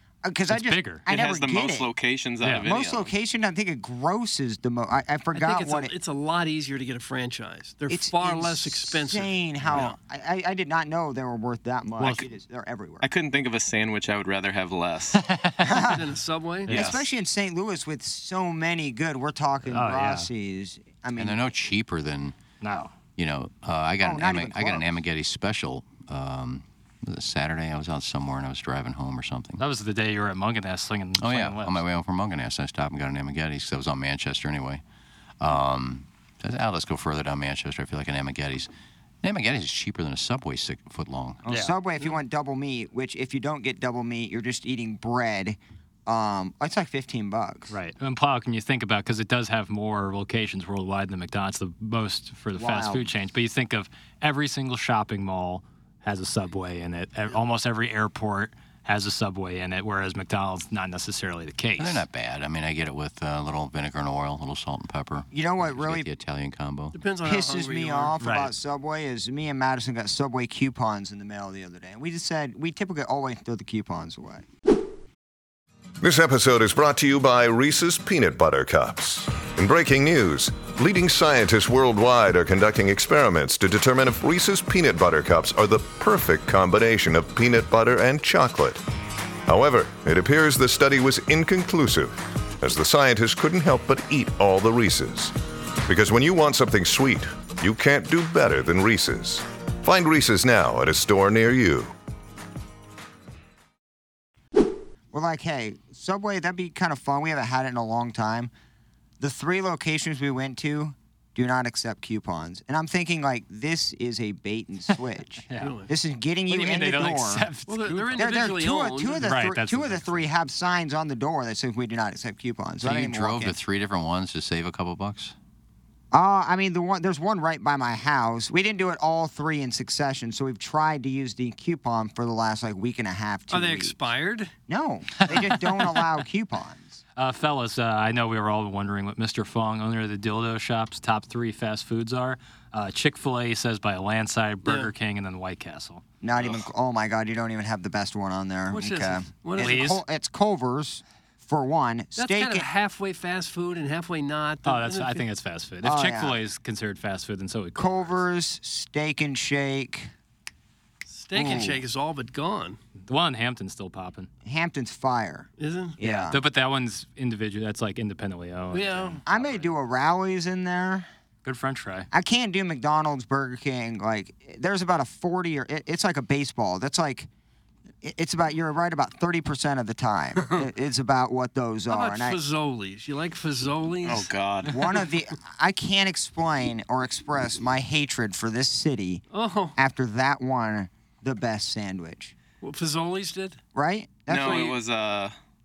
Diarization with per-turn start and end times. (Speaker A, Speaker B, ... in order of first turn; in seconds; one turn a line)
Speaker A: 0.2-1.9
Speaker B: 0.5-1.0
Speaker C: 1.1-3.1
Speaker B: 2.4-2.7
Speaker A: 2.6-5.9
Speaker D: 5.3-9.9
Speaker A: 7.9-13.1
Speaker B: 12.0-12.3
Speaker C: 13.0-15.2
Speaker B: 15.2-15.8
Speaker A: 15.6-16.1
Speaker D: 15.7-16.8
Speaker A: 16.7-21.4
Speaker B: 16.7-16.9
Speaker B: 19.7-20.3
Speaker E: 21.2-22.3
Speaker B: 22.6-22.9
Speaker E: 23.2-29.6
Speaker A: 24.0-24.9
Speaker B: 29.6-31.8
Speaker E: 31.2-34.8
Speaker E: 35.4-38.7
Speaker E: 39.2-41.4
Speaker A: 41.4-47.7
Speaker B: 41.5-41.7
Speaker B: 47.7-62.0
Speaker A: 52.5-53.1
Speaker E: 61.8-67.0
Speaker A: 65.3-66.1
Speaker D: 66.9-68.1
Speaker A: 67.2-74.5
Speaker B: 68.2-68.5
Speaker F: 76.0-88.8
Speaker F: 89.5-95.3
Speaker F: 95.9-101.9
Speaker A: 105.1-108.5
Speaker A: 109.2-117.5
Speaker D: 115.6-115.9
Speaker B: 116.5-118.3
Speaker D: 117.7-119.3
Speaker A: 118.2-123.5
Speaker B: 119.2-120.2
Speaker E: 122.8-125.3
Speaker A: 126.1-134.0
Speaker D: 133.5-134.5
Speaker A: 134.7-137.0
Speaker B: 137.2-146.0
Speaker D: 144.6-144.9
Speaker A: 146.2-152.7
Speaker D: 148.7-150.0
Speaker B: 149.6-150.0
Speaker D: 152.2-155.2
Speaker B: 154.6-158.2
Speaker A: 155.8-156.4
Speaker A: 157.8-160.1
Speaker D: 161.1-162.8
Speaker A: 161.3-161.8
Speaker B: 163.1-164.3
Speaker A: 164.4-166.4
Speaker D: 165.6-166.0
Speaker B: 166.0-169.7
Speaker D: 168.7-169.2
Speaker A: 169.2-171.1
Speaker B: 171.4-172.1
Speaker A: 172.1-177.3
Speaker A: 178.0-182.4
Speaker D: 181.9-184.3
Speaker C: 184.0-185.0
Speaker A: 184.6-189.2
Speaker D: 189.3-189.8
Speaker A: 189.8-192.3
Speaker D: 192.6-193.6
Speaker A: 193.7-194.7
Speaker C: 194.3-195.3
Speaker D: 194.4-194.7